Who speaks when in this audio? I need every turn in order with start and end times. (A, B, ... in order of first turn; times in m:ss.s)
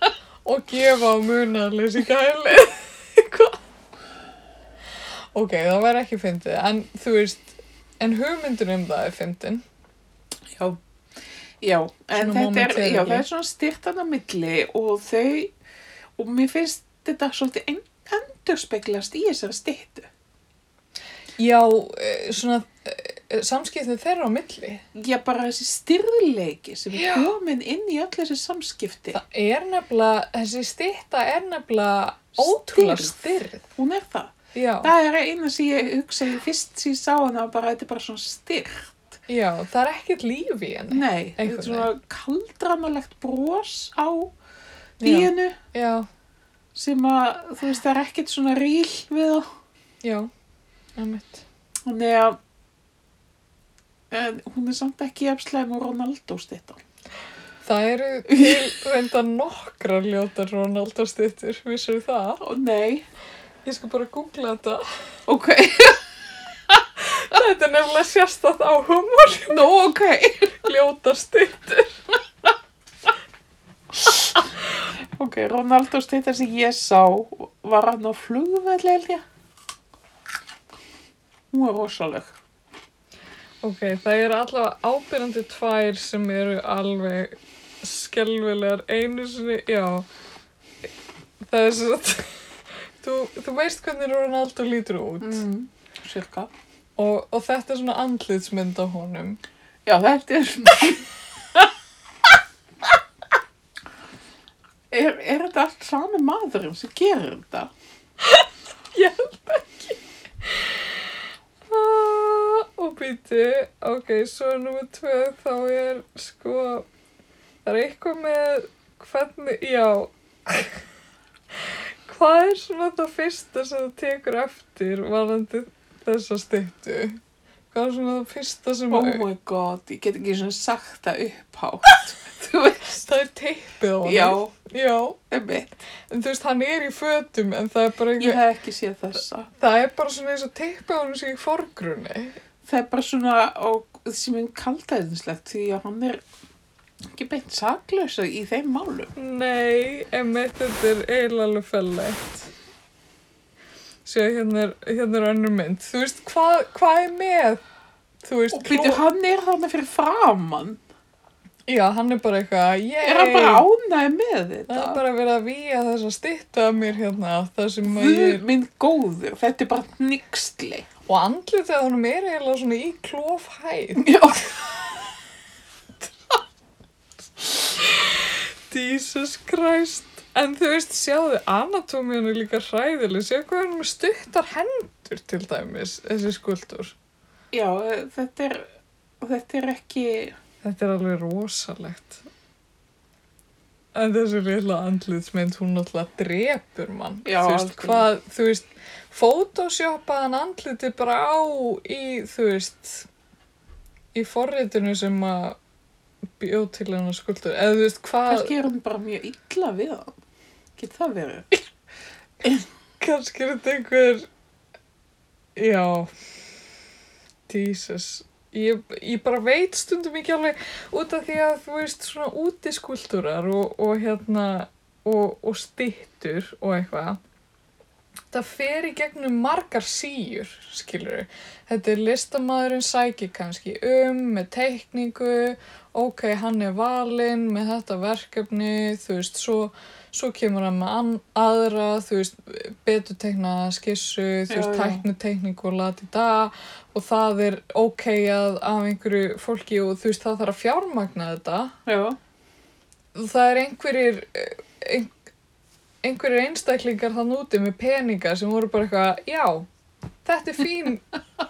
0:00.4-0:03.6 A
0:05.3-0:09.6 A
0:10.5-0:10.8 B
0:11.6-0:15.5 B
0:12.2-0:13.3 A
0:16.2-0:20.1 B
0:21.4-0:24.8 A
0:24.9-0:29.2 B
0:26.9-0:27.3 A
0:29.1-0:33.7 A
0:32.4-0:39.2 B
0:34.5-0:34.9 A
0:39.3-0:41.9 A
0:40.9-0:44.3 B
0:45.0-0:45.6 B
0:45.0-0:46.1 A
0:46.8-0:49.5 B
0:50.0-0:50.3 A
0:51.0-0:51.4 A
0:51.9-0:52.4 B
0:54.1-0:56.8 B
0:57.6-1:02.4 A
0:58.3-0:58.6 B
1:02.4-1:03.1 B
1:03.6-1:04.8 A
1:05.3-1:06.1 B
1:07.0-1:09.6 A
1:09.5-1:10.6 B
1:10.6-1:12.0 A
1:13.9-1:14.4 B
1:15.1-1:19.2 B
1:21.5-1:22.4 B
1:23.6-1:30.1 A
1:31.4-1:32.4 A
1:33.0-1:35.4 A
1:35.2-1:36.5 B
1:37.0-1:39.4 A
1:39.9-1:41.7 B
1:44.9-1:47.7 B
1:48.2-1:51.1 A
1:51.7-1:56.9 A
1:57.6-2:00.8 A
2:01.6-2:07.2 A
2:07.7-2:09.2 A
2:08.9-2:13.0 B
2:13.0-2:15.2 A
2:14.0-2:14.5 B
2:15.3-2:15.8 B
2:16.1-2:18.4 A
2:18.2-2:19.5 B
2:19.6-2:22.4 A
2:22.6-2:26.2 B
2:27.1-2:29.1 B
2:29.2-2:32.5 A
2:34.0-2:37.6 A
2:38.2-2:39.0 A
2:38.5-2:40.8 B
2:41.7-2:43.7 A
2:43.0-2:45.0 B
2:44.7-2:48.4 A
2:47.9-2:50.9 B
2:51.1-2:54.5 A
2:54.0-2:54.6 B
2:57.8-3:07.0 A
3:07.5-3:08.7 B
3:09.2-3:10.4 B
3:10.6-3:12.2 A
3:14.0-3:23.1 A
3:17.2-3:18.1 B
3:24.1-3:25.6 A
3:26.4-3:28.5 A
3:28.3-3:30.2 B
3:30.8-3:31.7 B
3:32.4-3:32.7 B
3:33.0-3:34.3 A
3:35.6-3:36.1 A
3:37.5-3:47.2 A
3:48.3-4:11.8 A
4:04.5-4:05.0 B
4:11.9-4:12.2 B
4:13.2-4:15.1 A
4:16.0-4:19.7 A
4:20.2-4:21.1 A